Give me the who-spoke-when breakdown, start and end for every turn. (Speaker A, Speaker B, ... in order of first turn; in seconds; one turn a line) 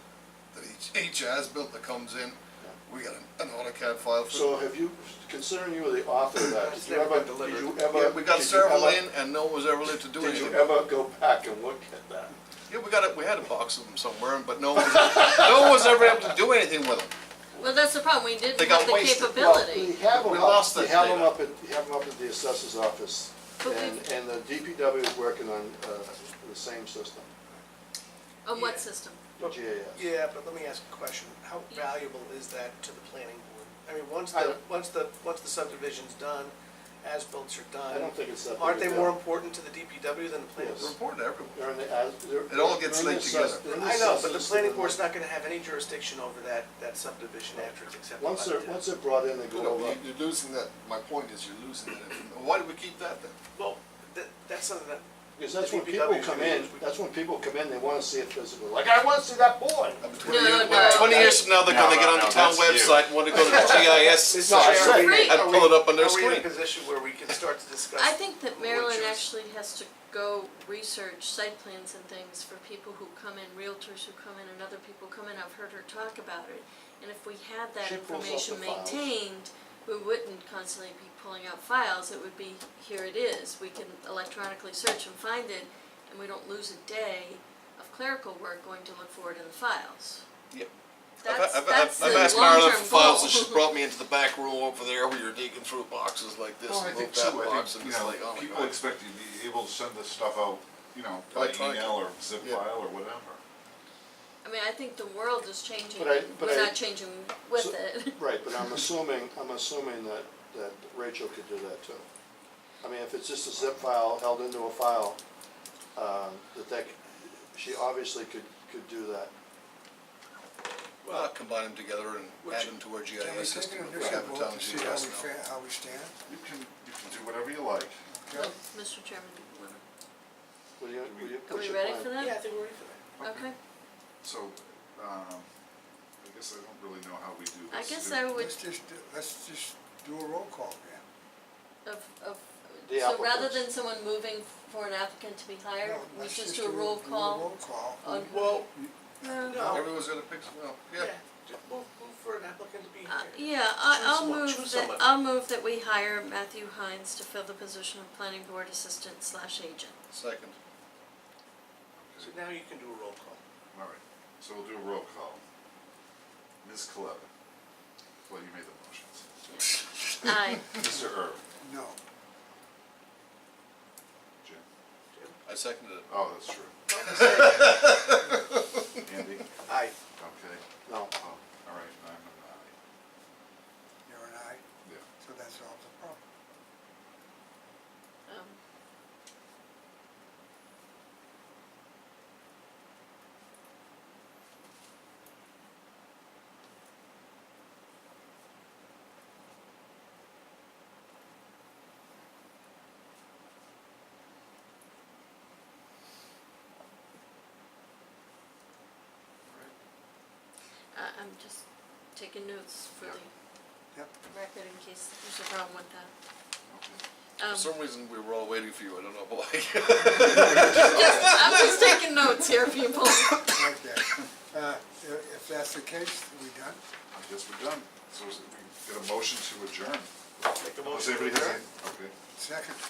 Speaker A: 0.5-4.5
Speaker B: 4.3-9.0
Speaker C: 6.6-7.8
Speaker A: 7.9-10.7
Speaker B: 10.1-12.3
Speaker A: 12.7-17.1
Speaker D: 17.5-19.9
Speaker A: 18.5-19.5
Speaker B: 19.3-27.3
Speaker A: 20.0-21.4
Speaker D: 23.6-24.0
Speaker D: 28.4-29.2
Speaker C: 28.5-40.9
Speaker B: 29.4-30.1
Speaker B: 37.9-39.2
Speaker B: 40.6-41.0
Speaker A: 40.8-41.6
Speaker B: 41.5-45.0
Speaker A: 42.5-43.8
Speaker C: 43.7-48.8
Speaker B: 47.5-50.0
Speaker A: 49.5-53.3
Speaker C: 53.5-56.8
Speaker B: 55.4-61.4
Speaker A: 60.0-66.5
Speaker D: 60.2-61.6
Speaker E: 61.1-63.7
Speaker B: 63.3-65.3
Speaker C: 63.6-69.3
Speaker D: 64.8-65.6
Speaker D: 67.9-90.2
Speaker B: 77.8-79.1
Speaker D: 91.2-93.6
Speaker A: 91.2-98.8
Speaker E: 96.7-103.4
Speaker A: 101.3-102.6
Speaker D: 104.4-108.5
Speaker B: 106.0-106.8
Speaker B: 107.5-112.0
Speaker B: 112.8-115.2
Speaker B: 115.9-119.3
Speaker C: 121.0-121.3
Speaker A: 121.1-125.3
Speaker C: 122.4-122.7
Speaker F: 123.2-126.2
Speaker B: 123.9-124.2
Speaker E: 126.2-128.0
Speaker F: 128.1-128.5
Speaker D: 128.3-129.8
Speaker B: 130.8-132.1
Speaker E: 131.0-131.4
Speaker D: 131.4-132.4
Speaker C: 132.2-133.1
Speaker E: 133.2-133.5
Speaker D: 133.2-133.6
Speaker E: 134.2-135.5
Speaker E: 136.2-138.3
Speaker D: 137.7-138.6
Speaker F: 138.2-141.0
Speaker D: 141.8-148.7
Speaker B: 142.8-143.7
Speaker F: 145.8-149.6
Speaker C: 148.3-148.7
Speaker D: 149.2-149.9
Speaker C: 149.4-149.9
Speaker A: 149.6-151.1
Speaker C: 150.9-155.1
Speaker D: 153.1-159.9
Speaker A: 160.1-160.6
Speaker E: 161.9-162.4
Speaker C: 162.2-163.4
Speaker E: 163.7-165.4
Speaker E: 166.6-167.3
Speaker E: 168.2-169.2
Speaker D: 169.4-170.8
Speaker E: 170.3-171.4
Speaker F: 171.6-172.0
Speaker A: 175.5-176.1
Speaker E: 176.1-176.7
Speaker C: 176.9-177.9
Speaker A: 177.0-178.3
Speaker E: 179.0-179.5
Speaker C: 179.7-179.9
Speaker E: 180.1-182.7
Speaker B: 180.8-181.1
Speaker F: 184.1-184.6
Speaker F: 185.2-186.2
Speaker D: 188.2-188.6
Speaker D: 210.9-213.3
Speaker D: 214.3-216.1
Speaker E: 216.7-217.0
Speaker D: 217.4-217.7
Speaker A: 217.5-221.9
Speaker F: 220.1-220.9
Speaker D: 220.4-223.5
Speaker F: 223.4-226.8
Speaker E: 227.1-230.1
Speaker C: 230.4-231.6
Speaker E: 230.8-232.1
Speaker F: 232.3-232.8